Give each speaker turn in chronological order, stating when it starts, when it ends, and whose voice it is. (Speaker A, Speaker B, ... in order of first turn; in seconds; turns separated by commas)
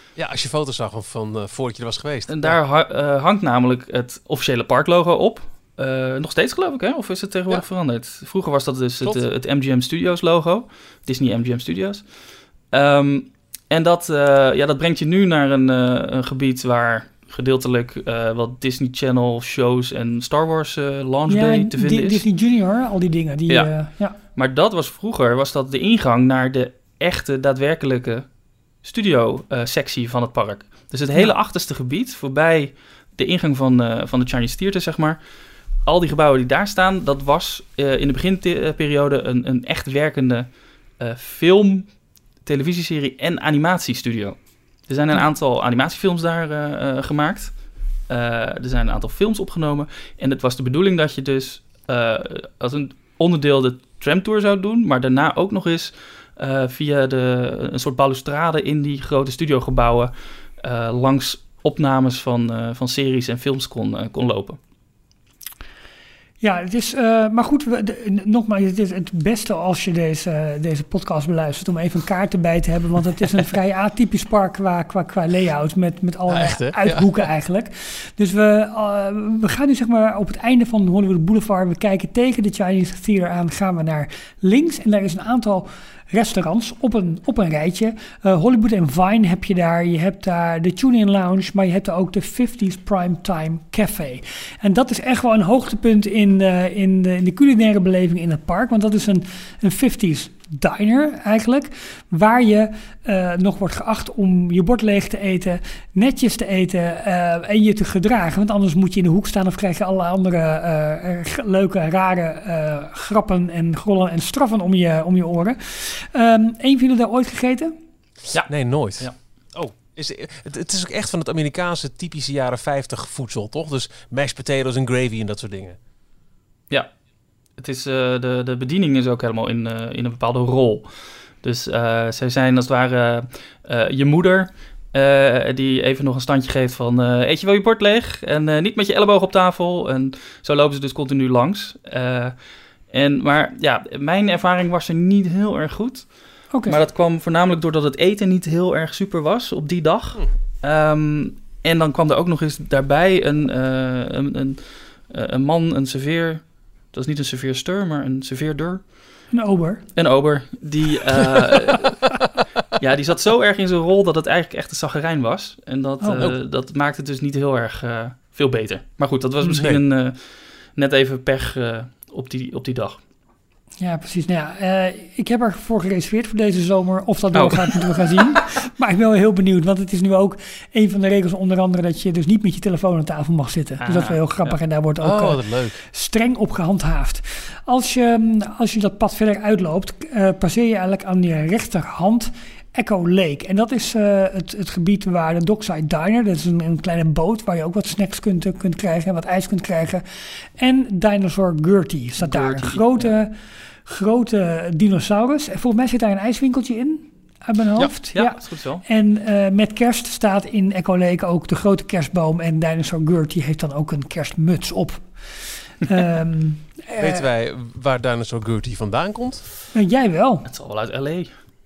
Speaker A: 0.2-2.6, Speaker B: 2.3-22.2, Speaker C: 21.3-24.2, Speaker B: 23.5-35.2, Speaker B: 35.8-64.6, Speaker C: 66.4-117.7, Speaker A: 76.3-77.1, Speaker B: 118.3-119.2, Speaker A: 118.5-125.8, Speaker B: 127.6-142.3, Speaker B: 142.9-159.2, Speaker C: 146.5-146.8, Speaker C: 159.3-159.8, Speaker B: 160.0-162.1, Speaker B: 162.8-173.0, Speaker C: 166.0-166.3, Speaker A: 169.6-169.8, Speaker C: 173.8-217.2, Speaker B: 177.3-178.4, Speaker B: 183.8-184.6, Speaker A: 185.0-185.8, Speaker B: 202.2-203.1, Speaker B: 208.1-208.8, Speaker A: 217.0-219.4, Speaker C: 219.7-220.5, Speaker B: 220.5-221.3